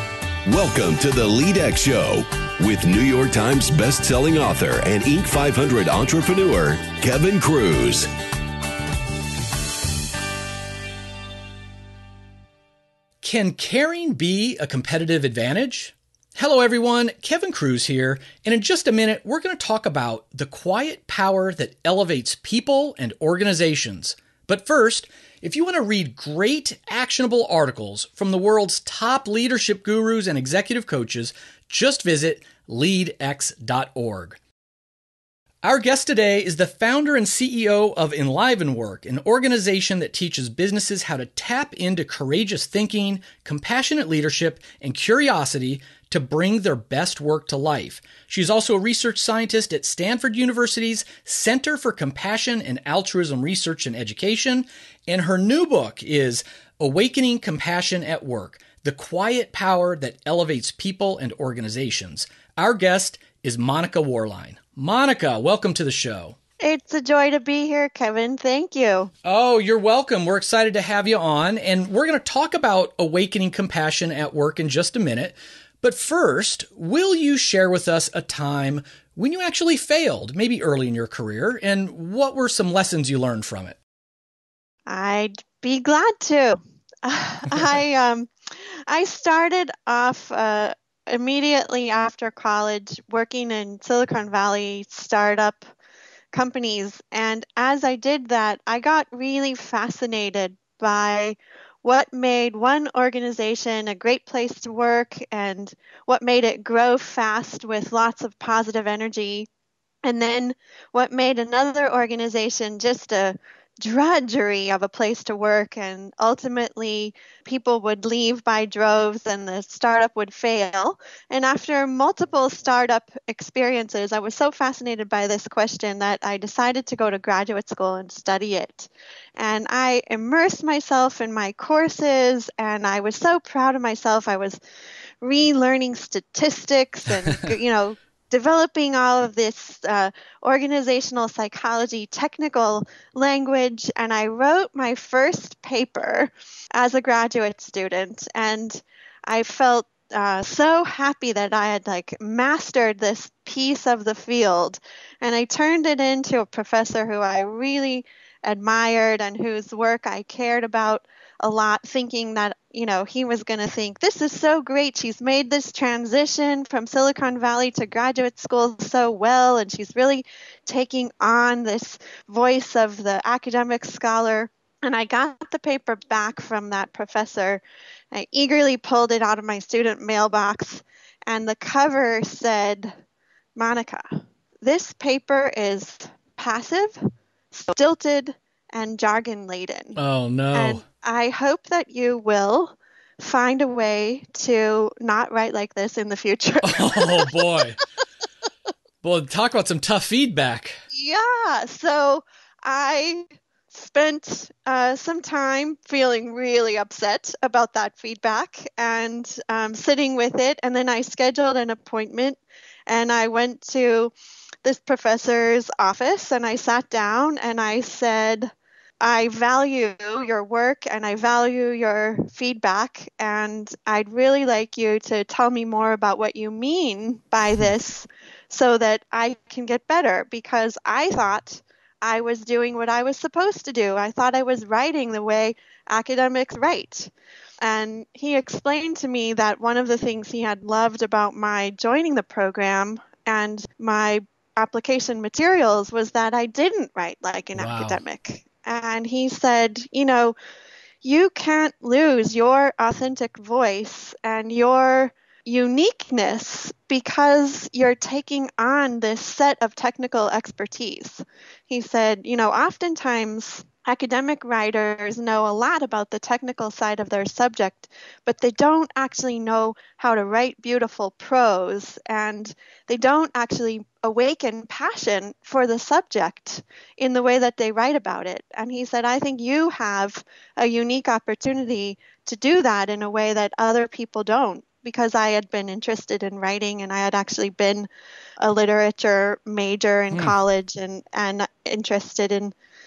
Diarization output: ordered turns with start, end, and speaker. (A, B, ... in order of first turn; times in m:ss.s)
0:00.4-0:08.1 A
0:13.2-0:34.4 B
0:35.6-1:06.4 B
1:06.6-1:09.1 C
1:09.2-1:23.8 B
1:24.9-1:35.6 C
1:36.3-1:49.5 C
1:50.0-2:14.6 C
2:15.2-3:02.9 C
3:03.6-3:07.0 C
3:07.5-3:10.0 C
3:10.0-3:10.8 B
3:10.5-3:17.3 C
3:16.6-3:17.8 B
3:19.0-3:20.8 B
3:20.9-3:34.1 C
3:34.6-3:57.1 C
3:57.6-4:10.4 C
4:07.6-4:08.0 B
4:11.0-4:47.9 C
4:48.4-4:52.5 C